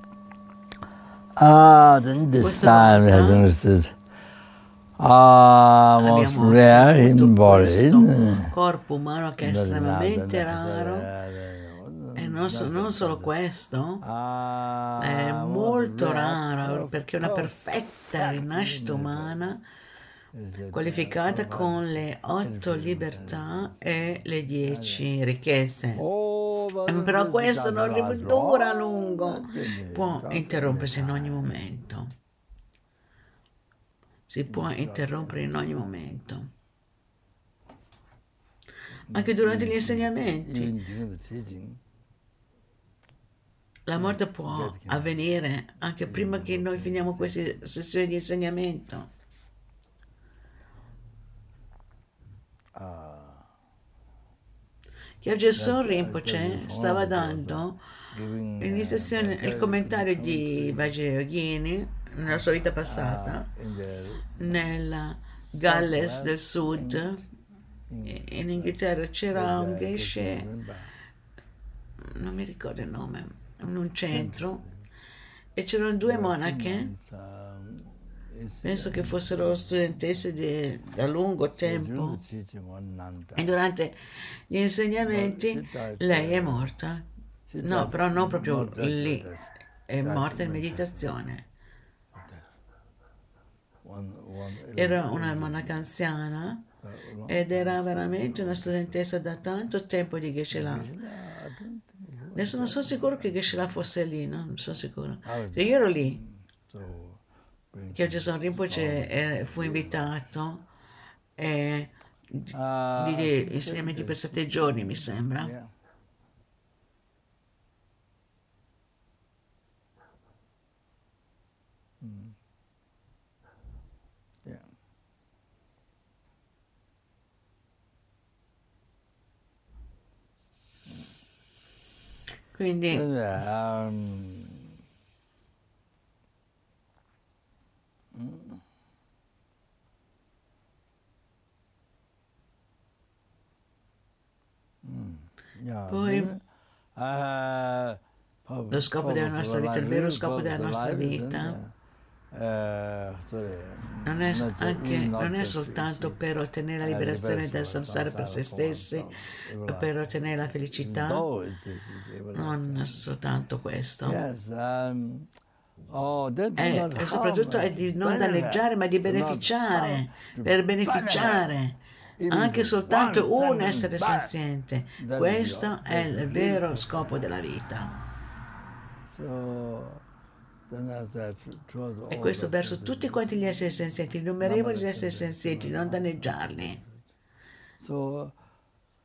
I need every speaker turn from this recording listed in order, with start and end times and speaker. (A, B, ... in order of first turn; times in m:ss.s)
0:01.4-0:04.0 A
0:02.4-0:03.5 B
0:05.0-0:08.5 A
0:06.0-0:11.1 B
0:09.4-0:13.3 A
0:12.2-0:14.0 B
0:14.0-0:19.5 A
0:15.0-0:19.6 B
0:20.3-0:23.8 A
0:20.7-0:26.0 B
0:24.6-0:25.1 A
0:26.0-0:31.6 A
0:26.9-0:32.1 B
0:34.3-0:36.5 B
0:34.5-0:35.7 A
0:39.1-0:41.8 A
0:39.1-0:40.8 B
0:43.9-0:49.1 B
0:44.0-0:45.2 A
0:46.0-0:47.7 A
0:52.7-0:53.5 A
0:55.2-0:57.8 B
0:55.5-1:01.0 A
0:58.6-1:03.5 B
1:02.3-1:04.8 A
1:04.4-1:07.2 B
1:05.5-1:07.2 A
1:07.9-1:10.9 A
1:08.0-1:10.5 B
1:12.0-1:14.6 B
1:14.0-1:14.9 A
1:15.6-1:16.9 B
1:16.0-1:20.3 A
1:18.6-1:22.2 B
1:21.6-1:23.6 A
1:23.4-1:23.9 B
1:24.5-1:27.1 B
1:25.0-1:26.7 A
1:27.5-1:31.2 A
1:27.6-1:29.3 B
1:29.9-1:31.4 B
1:32.1-1:32.6 A
1:33.8-1:35.9 A
1:34.7-1:36.6 B
1:36.8-1:39.0 A
1:37.3-1:40.9 B
1:40.5-1:43.8 A
1:42.3-1:46.2 B
1:45.2-1:50.2 A
1:47.9-1:50.6 B
1:51.4-1:55.5 B
1:52.5-1:55.7 A
2:02.0-2:02.4 A
2:04.4-2:04.7 A
2:12.5-2:13.0 B
2:12.9-2:14.7 A
2:18.1-2:18.6 A
2:24.8-2:26.4 A
2:25.9-2:26.3 B
2:26.9-2:31.7 A
2:28.7-2:31.6 B
2:32.3-2:36.2 A
2:34.0-2:39.1 B
2:36.8-2:43.1 A
2:39.6-2:41.2 B
2:42.3-2:44.2 B
2:44.0-2:45.3 A
2:45.9-2:51.5 A
2:46.6-2:57.9 B
2:52.2-2:54.3 A
2:55.0-2:57.3 A
2:59.1-3:00.0 A
3:00.7-3:07.1 A
3:02.1-3:06.8 B
3:07.8-3:08.4 A